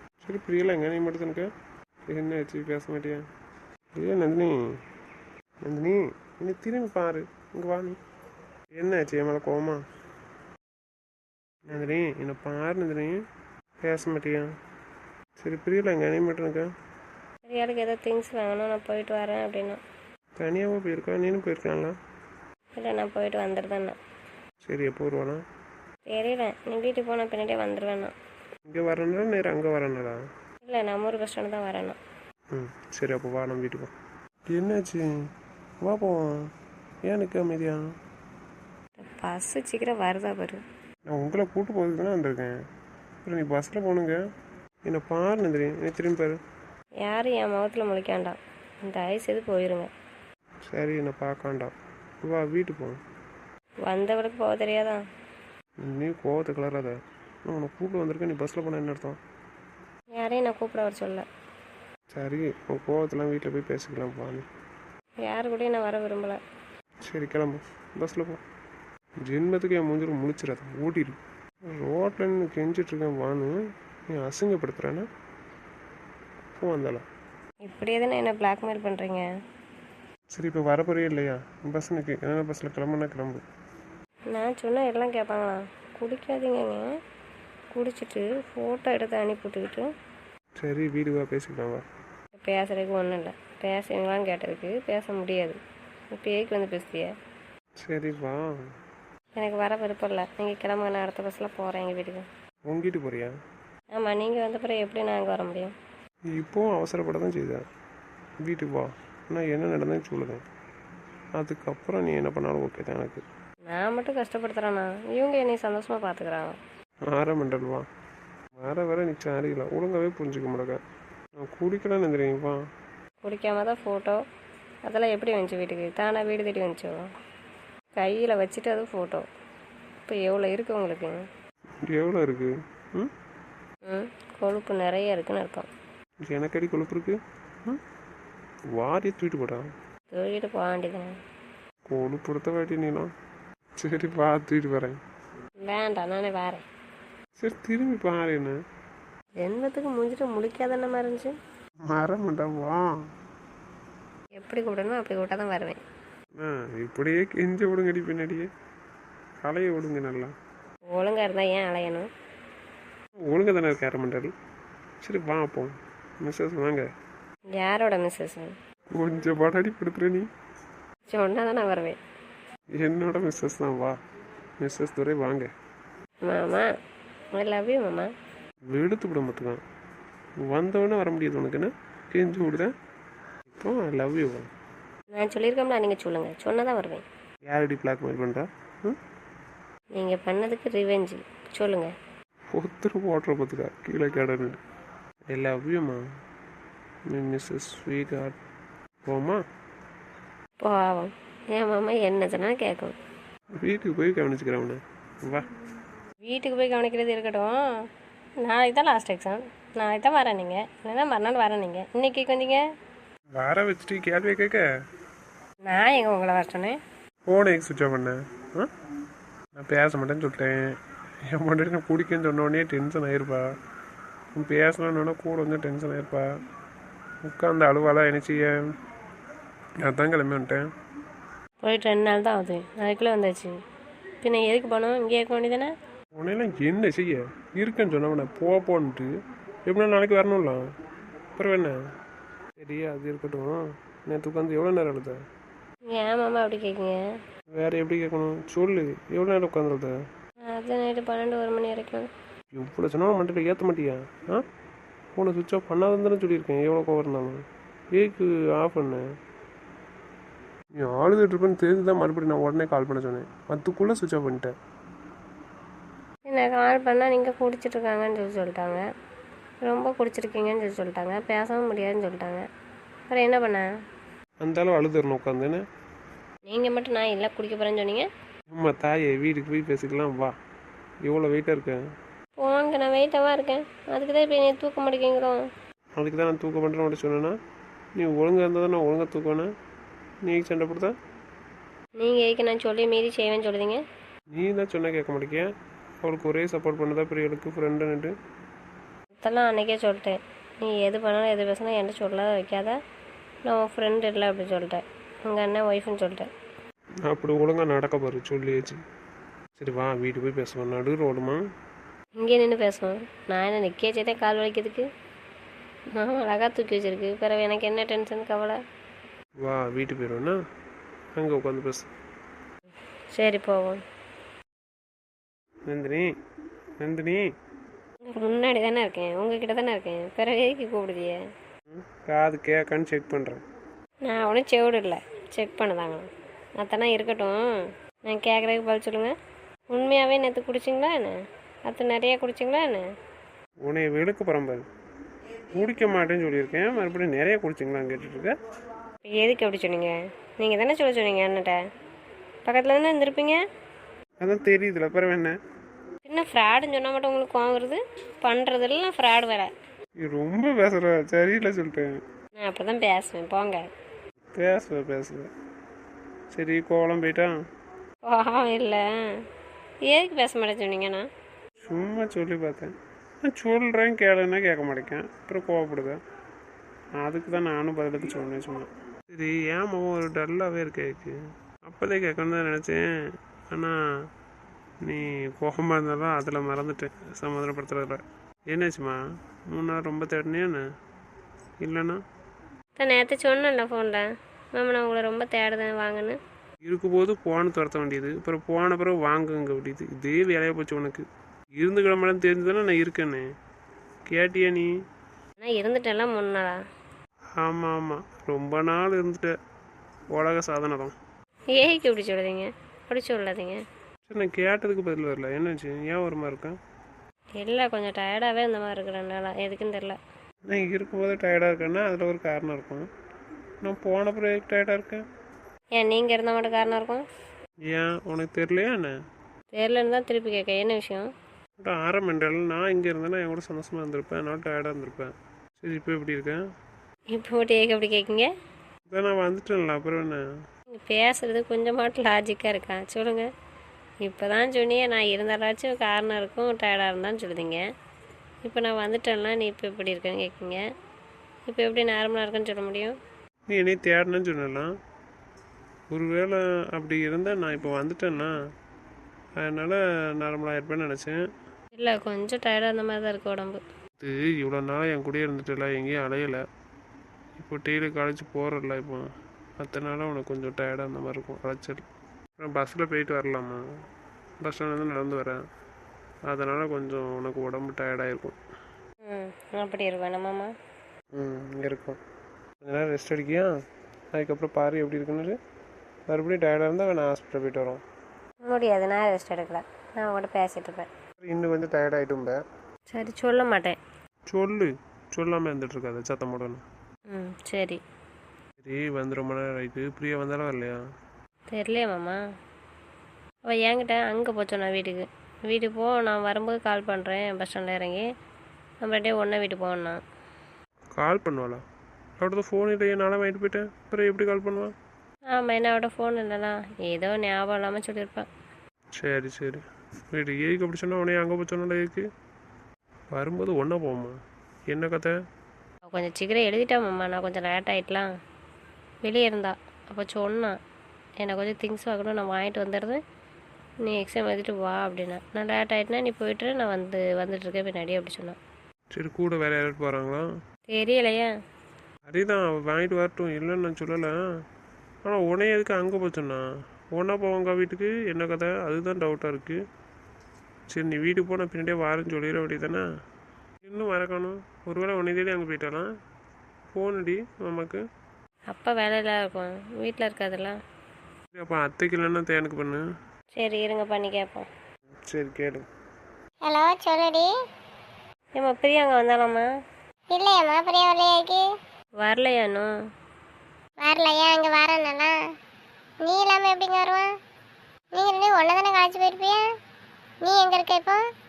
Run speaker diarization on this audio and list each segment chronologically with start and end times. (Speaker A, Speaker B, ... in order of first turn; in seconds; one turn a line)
Speaker A: 0.2-1.5
Speaker A: 2.1-3.2
Speaker A: 3.9-4.5
Speaker A: 5.6-8.0
Speaker A: 8.7-9.8
Speaker A: 11.7-13.2
Speaker A: 13.8-14.5
Speaker A: 15.4-16.7
Speaker B: 17.4-19.8
Speaker A: 20.4-21.9
Speaker B: 22.8-23.9
Speaker A: 24.6-25.4
Speaker B: 26.1-28.1
Speaker A: 28.6-30.2
Speaker B: 30.6-32.0
Speaker A: 32.5-33.9
Speaker A: 34.5-35.0
Speaker A: 35.8-36.5
Speaker A: 37.0-37.8
Speaker B: 39.0-40.6
Speaker A: 41.1-42.5
Speaker A: 43.2-44.2
Speaker A: 44.8-46.4
Speaker B: 47.0-49.9
Speaker A: 50.7-53.0
Speaker B: 53.9-55.0
Speaker A: 55.8-57.0
Speaker A: 57.5-59.2
Speaker B: 60.1-61.2
Speaker A: 62.1-64.5
Speaker B: 65.2-66.4
Speaker A: 67.0-68.4
Speaker A: 69.2-73.6
Speaker A: 74.1-75.1
Speaker A: 76.5-77.0
Speaker B: 77.7-79.2
Speaker A: 80.3-83.4
Speaker B: 84.3-86.9
Speaker B: 87.7-89.9
Speaker A: 90.6-91.8
Speaker B: 92.4-95.6
Speaker B: 96.1-97.1
Speaker A: 97.8-98.4
Speaker B: 99.3-102.2
Speaker A: 102.7-103.3
Speaker B: 103.9-105.7
Speaker A: 106.3-107.7
Speaker A: 108.4-110.4
Speaker A: 111.3-113.2
Speaker B: 113.7-116.6
Speaker A: 117.1-117.9
Speaker A: 118.6-120.8
Speaker A: 121.3-122.6
Speaker B: 123.2-124.2
Speaker B: 124.8-127.0
Speaker B: 128.0-129.3
Speaker B: 130.0-131.2
Speaker A: 131.8-133.1
Speaker B: 133.9-135.7
Speaker A: 136.2-137.8
Speaker A: 138.7-139.7
Speaker B: 140.1-141.1
Speaker A: 141.9-143.1
Speaker A: 143.8-145.0
Speaker B: 145.6-146.7
Speaker A: 147.4-148.6
Speaker B: 149.4-151.3
Speaker A: 151.8-152.8
Speaker B: 154.4-155.8
Speaker A: 156.4-158.5
Speaker A: 159.4-160.3
Speaker B: 160.9-162.1
Speaker A: 163.2-164.3
Speaker A: 165.0-166.9
Speaker B: 167.5-168.5
Speaker A: 168.9-170.3
Speaker B: 171.1-172.0
Speaker A: 172.8-174.0
Speaker A: 174.6-175.5
Speaker B: 176.2-176.7
Speaker B: 177.3-178.1
Speaker A: 178.7-179.6
Speaker A: 180.4-182.7
Speaker A: 183.5-184.5
Speaker B: 185.1-187.0
Speaker A: 187.4-189.0
Speaker B: 189.9-191.9
Speaker A: 192.5-194.6
Speaker A: 195.3-196.0
Speaker A: 197.1-198.4
Speaker A: 199.0-199.4
Speaker B: 200.6-202.9
Speaker A: 203.6-205.5
Speaker B: 206.2-207.6
Speaker B: 208.4-212.6
Speaker A: 213.3-214.6
Speaker B: 215.7-216.8
Speaker A: 217.3-218.7
Speaker A: 219.5-223.5
Speaker A: 224.3-226.3
Speaker A: 227.2-228.7
Speaker A: 229.8-230.7
Speaker B: 231.6-233.5
Speaker B: 234.2-235.7
Speaker A: 236.2-239.1
Speaker A: 239.7-240.7
Speaker A: 241.3-241.8
Speaker A: 242.6-245.2
Speaker B: 245.9-247.0
Speaker A: 247.5-249.9
Speaker B: 250.5-252.1
Speaker A: 252.5-254.4
Speaker A: 255.1-259.0
Speaker A: 260.8-264.5
Speaker B: 266.2-268.8
Speaker B: 269.6-272.4
Speaker B: 273.1-273.7
Speaker A: 274.4-275.6
Speaker B: 276.5-278.1
Speaker A: 278.5-280.4
Speaker A: 281.0-281.8
Speaker B: 282.4-285.4
Speaker A: 285.9-287.4
Speaker A: 287.9-289.5
Speaker A: 290.2-290.9
Speaker B: 292.0-293.8
Speaker A: 294.3-295.5
Speaker A: 296.0-298.1
Speaker B: 299.2-302.8
Speaker B: 303.4-306.3
Speaker A: 307.0-308.8
Speaker A: 309.6-311.4
Speaker B: 312.2-314.9
Speaker B: 315.9-318.6
Speaker A: 319.4-320.4
Speaker A: 321.1-321.9
Speaker B: 323.1-323.8
Speaker A: 325.7-326.1
Speaker A: 326.8-327.3
Speaker B: 328.1-331.2
Speaker A: 331.7-333.4
Speaker B: 334.1-336.1
Speaker B: 336.6-337.4
Speaker B: 338.0-339.1
Speaker B: 339.7-341.1
Speaker B: 341.7-342.9
Speaker A: 343.6-344.6
Speaker A: 345.5-348.3
Speaker B: 349.0-351.6
Speaker B: 352.4-353.4
Speaker A: 354.2-355.4
Speaker B: 356.1-359.5
Speaker A: 360.0-362.0
Speaker B: 362.4-363.7
Speaker A: 364.3-365.3
Speaker A: 366.3-367.3
Speaker B: 368.1-368.9
Speaker B: 369.8-371.1
Speaker A: 371.6-376.0
Speaker A: 377.0-382.9
Speaker A: 383.5-383.8
Speaker A: 384.8-389.0
Speaker A: 389.5-390.6
Speaker A: 391.6-392.0
Speaker B: 392.8-394.0
Speaker B: 394.5-396.2
Speaker A: 396.6-403.2
Speaker A: 404.1-404.7
Speaker B: 405.4-406.6
Speaker A: 407.4-409.4
Speaker A: 410.1-410.9
Speaker B: 411.5-413.6
Speaker A: 414.1-416.6
Speaker B: 417.4-420.0
Speaker A: 420.5-422.9
Speaker A: 423.6-425.1
Speaker B: 425.7-427.0
Speaker A: 427.6-428.9
Speaker B: 429.5-431.1
Speaker A: 431.6-436.4
Speaker B: 437.1-438.3
Speaker A: 438.9-440.2
Speaker B: 440.7-443.3
Speaker B: 444.0-447.6
Speaker B: 448.4-450.6
Speaker B: 451.5-452.9
Speaker A: 453.5-454.7
Speaker A: 455.9-458.3
Speaker A: 459.4-461.2
Speaker B: 461.8-463.6
Speaker A: 464.0-466.4
Speaker A: 467.4-471.9
Speaker A: 472.4-473.6
Speaker A: 474.4-475.4
Speaker A: 476.3-478.4
Speaker B: 479.1-480.5
Speaker A: 481.1-482.0
Speaker A: 482.6-483.5
Speaker A: 484.1-485.4
Speaker A: 486.1-487.8
Speaker B: 488.4-490.9
Speaker A: 491.2-492.4
Speaker B: 492.9-493.8
Speaker A: 494.3-496.6
Speaker B: 497.1-497.8
Speaker A: 498.6-500.8
Speaker B: 501.5-502.2
Speaker B: 503.4-508.1
Speaker B: 508.8-510.0
Speaker A: 510.9-511.6
Speaker A: 512.2-514.7
Speaker B: 515.3-518.3
Speaker A: 519.0-522.1
Speaker A: 523.1-524.2
Speaker A: 524.7-525.1
Speaker B: 525.9-528.1
Speaker B: 529.0-530.6
Speaker B: 531.2-533.0
Speaker B: 533.8-538.4
Speaker A: 538.9-540.3
Speaker B: 540.7-541.3
Speaker A: 542.1-544.2
Speaker A: 545.0-549.6
Speaker A: 550.7-552.8
Speaker A: 553.6-555.9
Speaker A: 556.7-557.8
Speaker B: 558.5-560.6
Speaker A: 561.3-562.8
Speaker B: 563.4-564.5
Speaker A: 565.1-565.7
Speaker C: 566.4-567.3
Speaker B: 568.3-569.5
Speaker C: 570.1-571.4
Speaker B: 572.0-572.7
Speaker C: 573.8-575.1
Speaker C: 576.0-577.1
Speaker C: 577.9-579.4
Speaker C: 580.2-581.0